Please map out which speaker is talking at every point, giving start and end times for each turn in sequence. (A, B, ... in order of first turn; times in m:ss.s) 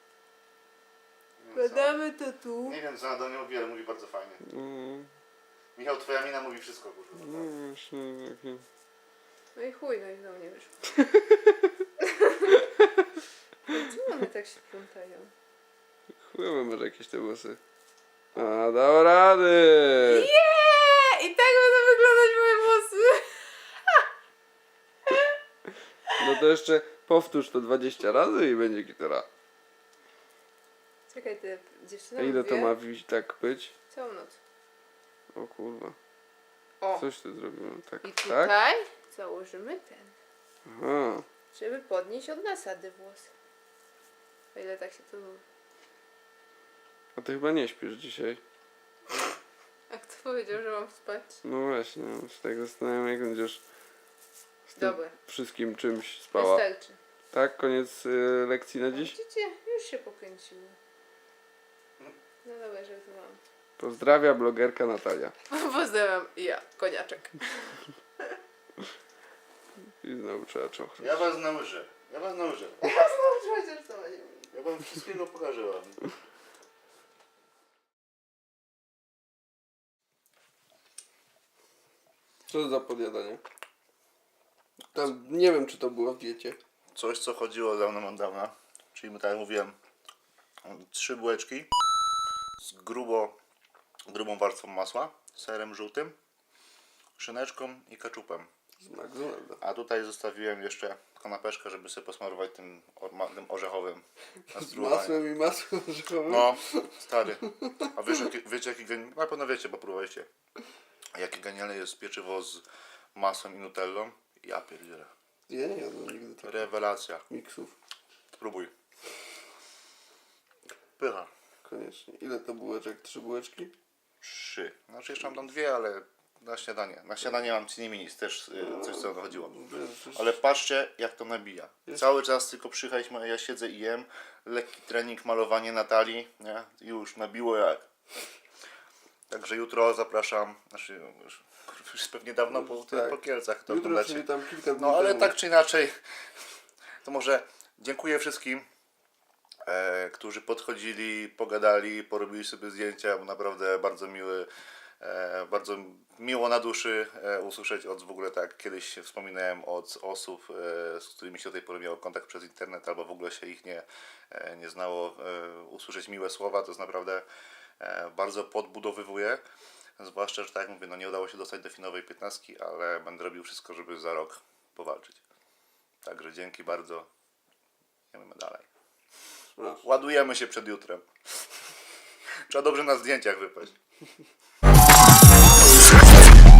0:01.4-0:02.0 A
0:01.5-0:02.8 B
0:02.6-0:04.4 A
0:04.4-0:05.1 C
0:05.7-0:07.5 A
0:07.2-0:08.6 C
0:09.5-0:10.7 B
0:12.0-0:12.7 B
0:13.7-0:15.3 B
0:16.3-0:17.6 C
0:18.4-0:20.3 C
0:20.0-0:24.0 B
0:26.2-0:29.2 C
0:31.1-0:32.7 B
0:32.2-0:33.7 C
0:33.9-0:34.4 B
0:35.3-0:36.0 C
0:37.0-0:38.5 C
0:38.0-0:40.1 B
0:40.6-0:41.2 C
0:41.5-0:43.3 B
0:44.5-0:45.4 B
0:47.2-0:48.4 C
0:49.9-0:51.4 B
0:51.4-0:53.6 C
0:54.7-0:56.6 C
0:54.8-0:55.1 B
0:56.4-0:57.0 B
0:57.3-0:59.1 C
0:58.9-1:00.8 B
1:02.4-1:03.4 B
1:03.8-1:05.3 C
1:05.5-1:08.4 B
1:10.0-1:11.2 C
1:11.0-1:12.8 A
1:12.8-1:14.5 B
1:14.5-1:16.0 A
1:22.5-1:23.4 C
1:24.9-1:26.6 C
1:26.9-1:29.8 A
1:30.6-1:31.7 A
1:32.6-1:33.4 A
1:34.1-1:36.2 A
1:37.2-1:38.5 A
1:38.8-1:39.6 C
1:39.6-1:45.2 A
1:44.5-1:46.9 C
1:46.3-1:50.3 A
1:51.1-1:55.1 A
1:55.5-1:56.6 C
1:56.4-1:57.2 A
1:57.3-1:57.7 C
1:58.4-1:58.7 A
2:01.0-2:01.3 A
2:01.6-2:03.7 C
2:04.2-2:17.9 A
2:08.6-2:10.2 C
2:19.3-2:26.0 A
2:22.6-2:25.4 C
2:27.0-2:28.6 A
2:29.6-2:34.5 A
2:35.0-2:47.2 A
2:47.8-2:49.4 A
2:50.0-2:55.2 A
2:56.0-2:57.1 A
2:58.1-2:58.7 A
2:59.6-2:59.8 C
2:59.8-3:01.4 A
3:02.5-3:03.8 A